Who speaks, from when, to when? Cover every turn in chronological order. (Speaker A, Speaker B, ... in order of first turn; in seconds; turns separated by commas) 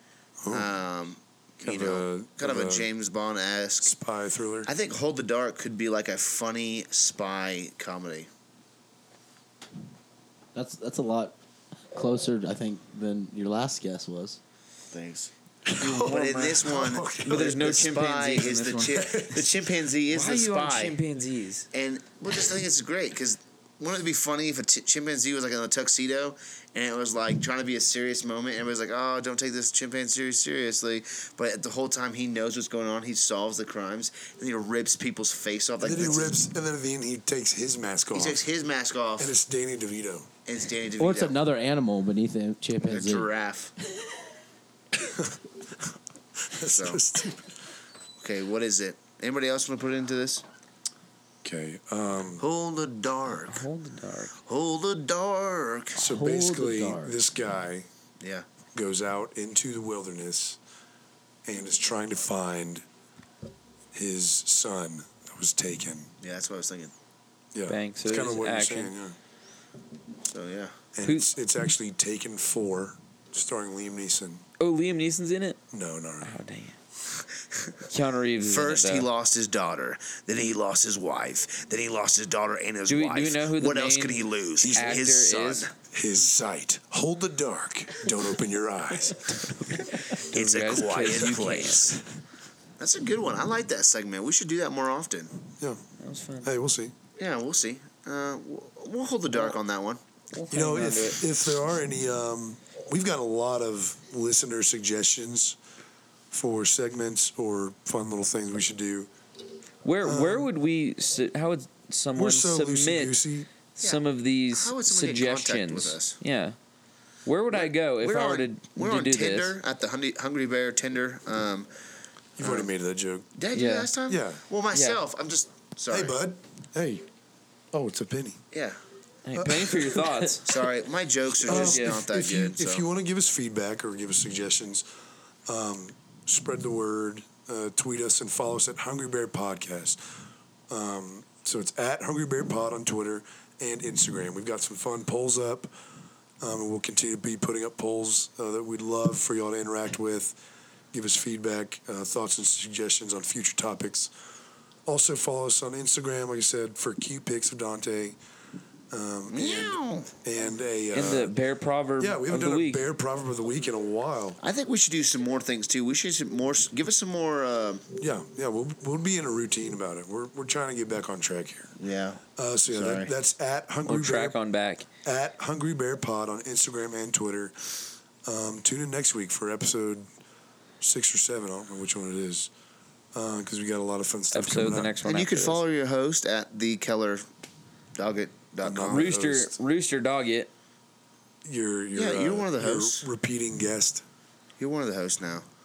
Speaker A: 0.4-0.7, Speaker B: 0.5-3.9, Speaker A: 1.6-2.9, Speaker A: 3.8-4.7, Speaker B: 4.7-8.3, Speaker C: 10.6-11.4, Speaker C: 11.9-14.4, Speaker B: 14.9-21.0, Speaker A: 15.7-17.6, Speaker D: 15.8-21.7, Speaker A: 18.9-19.4, Speaker B: 21.7-36.4, Speaker A: 35.8-38.4, Speaker B: 38.1-39.3, Speaker A: 39.2-40.3, Speaker B: 40.5-41.4, Speaker C: 41.0-43.3, Speaker B: 42.8-43.7, Speaker A: 45.0-45.3, Speaker A: 46.5-47.5, Speaker B: 46.6-47.0, Speaker B: 48.2-50.4, Speaker A: 51.4-52.4, Speaker B: 52.4-53.7, Speaker D: 53.5-54.3, Speaker B: 54.5-56.0, Speaker A: 56.0-57.9, Speaker C: 56.0-57.1, Speaker B: 58.2-58.5, Speaker A: 58.7-60.6, Speaker A: 61.5-62.8, Speaker A: 63.9-66.1, Speaker B: 66.2-66.9, Speaker A: 67.5-69.2, Speaker D: 67.7-68.9, Speaker B: 70.2-70.8, Speaker A: 71.0-74.4, Speaker D: 74.6-75.6, Speaker A: 75.7-76.3, Speaker D: 76.2-76.8, Speaker D: 77.9-79.1, Speaker B: 78.4-85.7, Speaker D: 82.9-85.7, Speaker A: 84.6-85.0, Speaker A: 85.9-89.5, Speaker D: 89.5-92.0, Speaker B: 90.2-92.0, Speaker B: 92.8-95.3, Speaker D: 96.0-96.5, Speaker A: 96.4-97.0, Speaker B: 97.2-100.0, Speaker D: 99.3-99.6, Speaker D: 100.3-101.2, Speaker A: 100.5-105.6, Speaker A: 106.3-109.1, Speaker D: 109.8-113.2, Speaker A: 110.0-110.5, Speaker A: 112.2-113.5, Speaker D: 113.8-116.6, Speaker B: 113.8-116.2, Speaker D: 117.2-119.6, Speaker B: 117.5-121.7, Speaker A: 122.4-123.3, Speaker B: 122.4-122.7, Speaker B: 123.4-126.2, Speaker C: 123.6-123.9, Speaker A: 124.1-124.4, Speaker D: 124.7-125.0, Speaker A: 125.9-127.1, Speaker A: 127.7-128.4, Speaker B: 128.5-128.8, Speaker D: 129.2-130.6, Speaker A: 129.4-130.1, Speaker B: 130.4-132.8, Speaker D: 131.4-132.1, Speaker A: 131.4-134.9, Speaker A: 135.5-140.0, Speaker A: 140.7-145.7, Speaker A: 146.4-150.4, Speaker A: 150.9-154.1, Speaker A: 154.9-158.2, Speaker A: 158.9-161.3, Speaker B: 159.3-160.1, Speaker D: 160.9-162.8, Speaker A: 162.0-164.4, Speaker B: 164.4-167.8, Speaker A: 168.0-171.8, Speaker B: 171.8-173.1, Speaker A: 172.4-174.4, Speaker D: 173.9-174.9, Speaker A: 175.0-180.1, Speaker A: 180.8-182.5, Speaker A: 183.2-184.9, Speaker D: 184.3-185.6, Speaker B: 185.0-187.2, Speaker B: 188.0-189.1, Speaker A: 188.6-189.6, Speaker D: 188.8-190.5, Speaker A: 191.4-194.0, Speaker B: 191.9-193.1, Speaker B: 194.6-195.5